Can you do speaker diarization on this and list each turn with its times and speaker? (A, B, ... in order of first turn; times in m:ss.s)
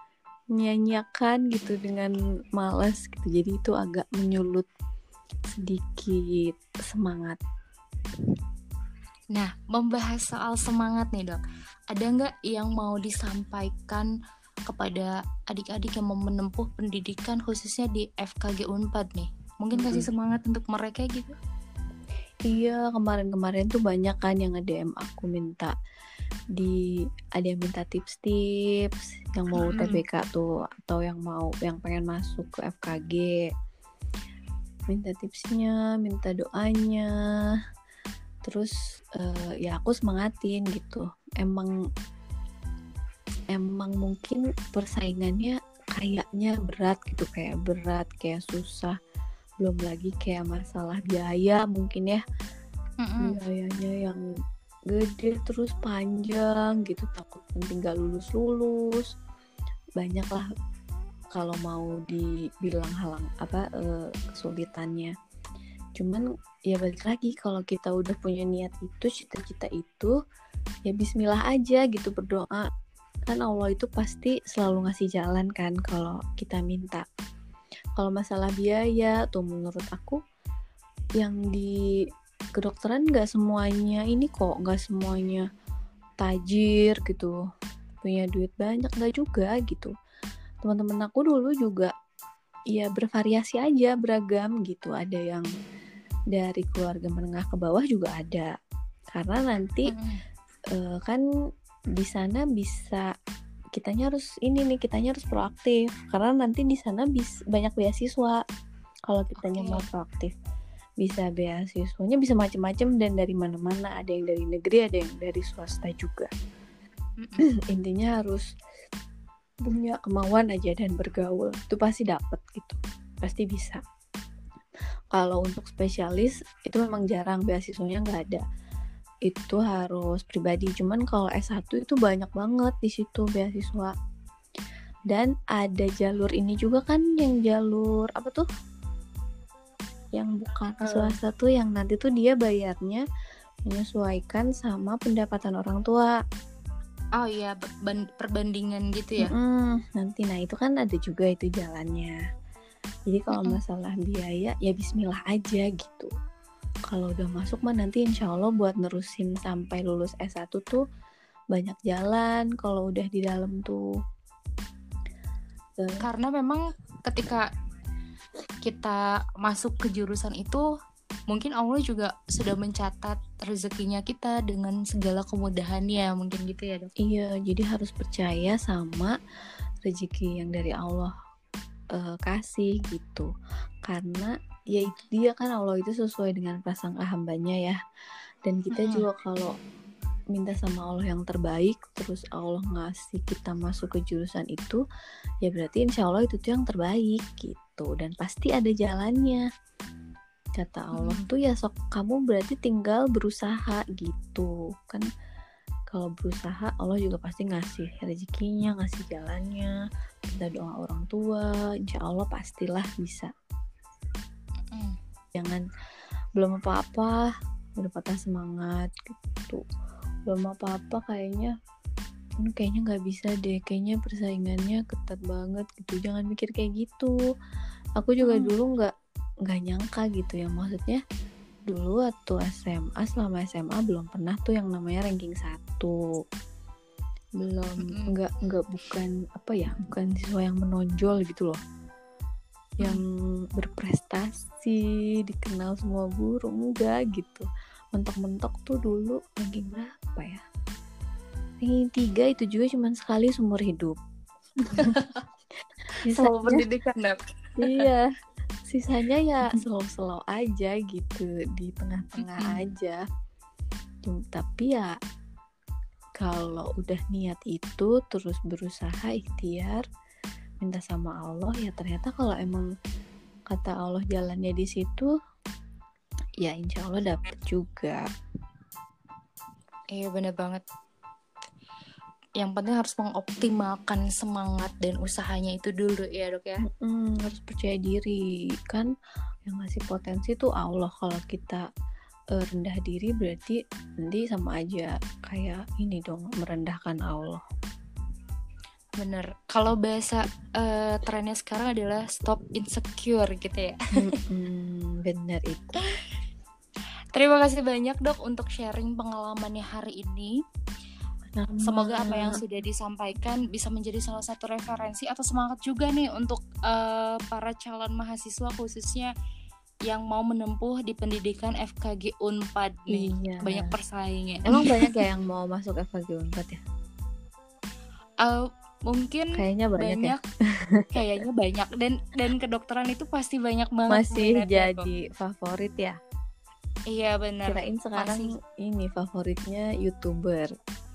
0:00.6-0:04.7 A
0:05.5-0:07.4 A
0:09.3-0:11.4 B
0:11.9-0:14.1 B
0:14.7-0:21.4 B
0:19.8-0:20.1 A
0:22.5-0:25.8 A
0:27.4-0:33.5 A
0:29.6-0:30.0 B
0:34.9-0:37.1 A
0:38.5-0:41.7 A
0:43.5-0:49.0 A
0:49.6-0:52.2 A
0:53.0-0:53.4 B
0:53.2-0:54.2 A
0:54.9-0:59.1 A
1:00.0-1:00.5 A
1:01.3-1:05.1 A
1:06.0-1:10.2 A
1:10.9-1:12.7 A
1:13.3-1:17.1 A
1:18.0-1:20.2 A
1:21.2-1:21.8 A
1:22.6-1:25.5 A
1:26.2-1:27.4 A
1:28.0-1:29.9 A
1:30.6-1:31.9 A
1:32.7-1:35.5 A
1:36.3-1:38.5 A
1:39.1-1:39.9 A
1:39.9-1:40.2 B
1:40.7-1:41.2 A
1:42.0-1:43.1 A
1:43.8-1:48.4 A
1:49.1-1:50.3 A
1:49.4-1:49.8 B
1:51.0-1:56.3 A
1:57.7-1:58.5 A
1:59.6-2:03.8 A
2:05.1-2:08.4 A
2:09.3-2:13.9 A
2:15.1-2:18.5 A
2:20.2-2:23.0 A
2:20.8-2:21.2 B
2:23.7-2:26.1 A
2:27.2-2:29.3 B
2:29.2-2:32.2 A
2:33.1-2:36.1 A
2:33.3-2:33.6 B
2:36.9-2:40.8 A
2:41.5-2:43.9 A
2:45.8-2:46.0 A
2:46.0-2:47.5 B
2:48.6-2:50.6 B
2:51.3-2:56.9 B
2:57.0-2:59.1 A
2:59.9-3:01.1 A
3:02.0-3:03.3 A
3:03.9-3:07.8 A
3:08.4-3:09.5 A
3:08.7-3:09.1 B
3:10.3-3:14.8 A
3:15.4-3:19.4 A
3:20.6-3:25.1 A
3:21.0-3:21.3 B
3:25.9-3:29.8 A
3:30.3-3:33.3 A
3:34.7-3:35.0 B
3:35.4-3:35.6 A
3:36.4-3:39.6 A
3:40.3-3:41.5 A
3:42.4-3:47.2 A
3:48.0-3:48.9 A
3:48.2-3:48.5 B
3:49.5-3:51.0 A
3:51.7-3:56.0 A
3:57.4-4:01.6 A
3:57.8-3:58.2 B
4:02.8-4:10.4 A
4:11.6-4:14.0 A
4:14.6-4:14.9 A
4:14.7-4:15.2 B
4:16.0-4:16.6 A
4:16.1-4:17.2 B
4:17.6-4:18.1 A
4:18.7-4:23.0 A
4:22.2-4:22.6 B
4:24.1-4:24.9 A
4:26.2-4:29.8 A
4:30.6-4:32.7 A
4:33.5-4:35.1 A
4:36.4-4:38.0 A
4:39.9-4:40.6 B
4:42.4-4:46.6 B
4:46.7-4:48.9 A
4:49.5-4:51.6 A
4:52.4-4:57.4 A
4:59.0-5:04.2 B
5:04.0-5:05.8 A
5:07.1-5:10.4 B
5:11.4-5:12.4 A
5:11.6-5:19.1 B
5:19.9-5:25.0 B
5:22.9-5:23.7 A
5:24.5-5:26.6 A
5:28.2-5:30.2 B
5:29.4-5:31.0 A
5:30.9-5:34.9 B
5:33.9-5:36.0 A
5:36.9-5:38.3 B
5:37.5-5:40.5 A